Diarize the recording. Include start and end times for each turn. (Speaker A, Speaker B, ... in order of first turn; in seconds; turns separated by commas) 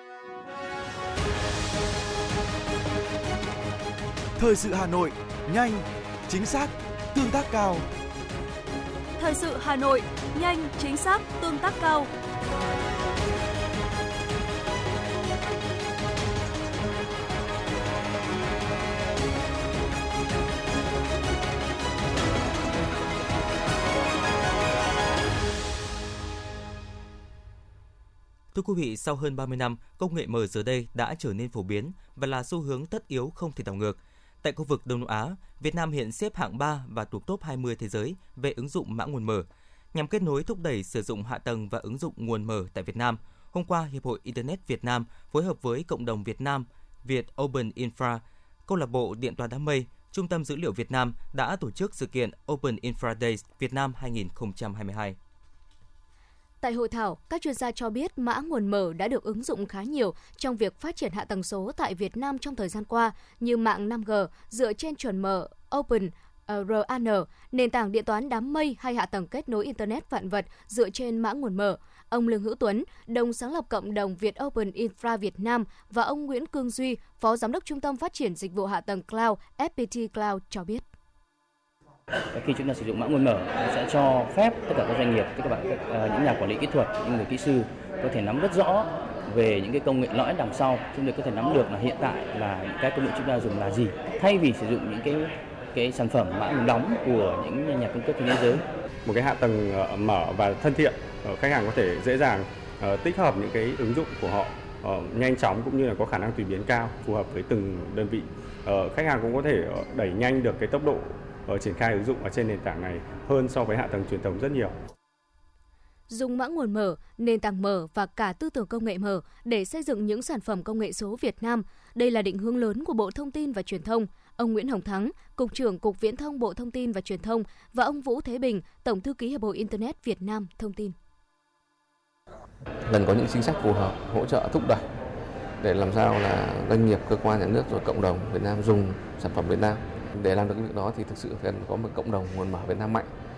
Speaker A: 4.4-7.9, Speaker B: 9.2-12.0, Speaker C: 28.5-55.2, Speaker D: 56.6-80.8, Speaker E: 82.3-98.7, Speaker F: 99.1-114.7, Speaker D: 116.1-130.9, Speaker G: 132.8-134.8, Speaker G: 135.6-143.1